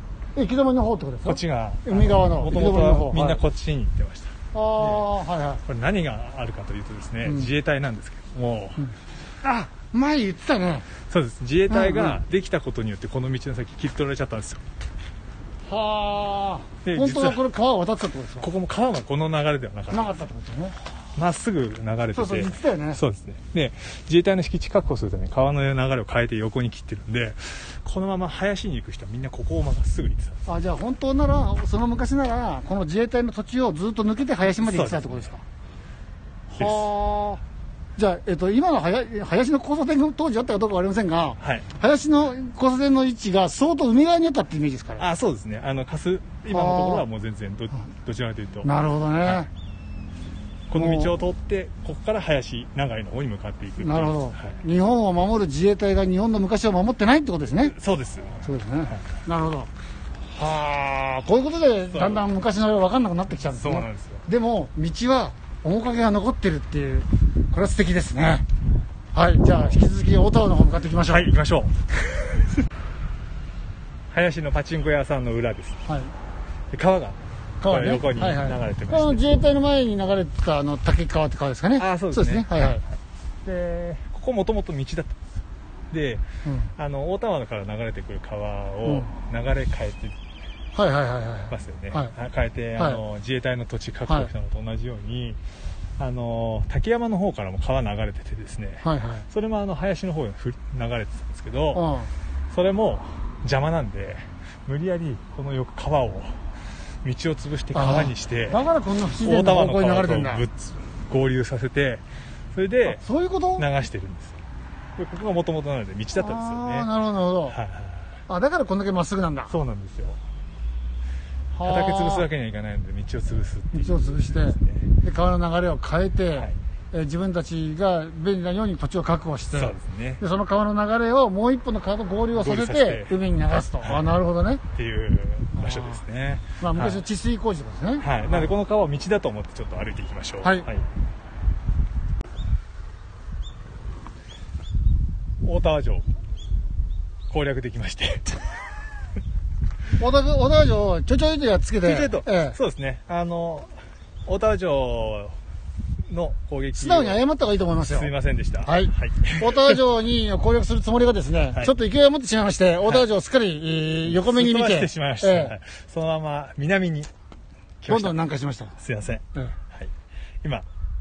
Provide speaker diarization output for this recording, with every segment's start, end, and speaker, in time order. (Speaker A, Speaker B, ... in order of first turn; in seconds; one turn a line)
Speaker A: 0.3-3.4
Speaker B: 1.2-5.1
Speaker A: 4.5-5.6
Speaker B: 5.7-8.9
Speaker A: 7.2-7.5
Speaker A: 9.4-10.9
Speaker B: 11.1-14.6
Speaker A: 11.7-12.2
Speaker A: 15.7-18.5
Speaker B: 16.9-17.4
Speaker B: 18.4-20.2
Speaker A: 19.9-20.8
Speaker B: 21.2-30.4
Speaker A: 22.1-23.0
Speaker A: 30.5-35.4
Speaker B: 34.5-35.3
Speaker A: 36.5-37.4
Speaker A: 38.0-45.0
Speaker B: 41.4-41.7
Speaker B: 45.0-48.7
Speaker A: 46.5-47.0
Speaker A: 48.6-49.5
Speaker B: 49.2-49.5
Speaker B: 50.7-54.5
Speaker A: 50.8-51.1
Speaker A: 53.8-57.8
Speaker B: 57.6-59.0
Speaker A: 58.4-59.7
Speaker A: 60.4-68.5
Speaker B: 61.9-62.2
Speaker B: 63.6-64.3
Speaker A: 69.1-71.3
Speaker B: 71.1-71.8
Speaker B: 74.1-75.8
Speaker A: 75.9-76.1
Speaker B: 76.7-79.2
Speaker A: 77.6-82.8
Speaker B: 81.8-82.5
Speaker B: 83.5-85.2
Speaker B: 85.9-86.2
Speaker A: 86.5-86.7
Speaker B: 86.8-90.2
Speaker A: 88.8-89.1
Speaker A: 90.7-92.1
Speaker B: 91.5-95.4
Speaker B: 96.0-101.8
Speaker A: 98.8-99.3
Speaker A: 101.7-102.1
Speaker B: 102.5-106.4
Speaker B: 107.0-108.6
Speaker A: 107.7-110.5
Speaker B: 109.2-113.0
Speaker A: 112.9-113.7
Speaker B: 113.6-114.4
Speaker B: 115.0-116.9
Speaker A: 116.1-117.6
Speaker B: 117.5-118.1
Speaker A: 118.3-119.5
Speaker B: 119.5-120.2
Speaker A: 121.5-122.3
Speaker B: 121.6-124.9
Speaker A: 123.7-134.6
Speaker B: 129.5-130.2
Speaker B: 132.3-133.2
Speaker B: 133.8-134.1
Speaker B: 134.7-137.0
Speaker A: 135.5-136.0
Speaker A: 136.6-138.5
Speaker B: 138.0-140.8
Speaker B: 145.4-146.1
Speaker B: 147.3-148.4
Speaker A: 150.0-152.6
Speaker B: 151.8-153.7
Speaker B: 154.3-155.3
Speaker B: 156.1-157.2
Speaker A: 156.8-158.1
Speaker B: 157.9-159.8
Speaker A: 158.6-165.6
Speaker B: 164.0-167.1
Speaker B: 167.8-168.3
Speaker A: 167.9-168.8
Speaker B: 168.8-169.9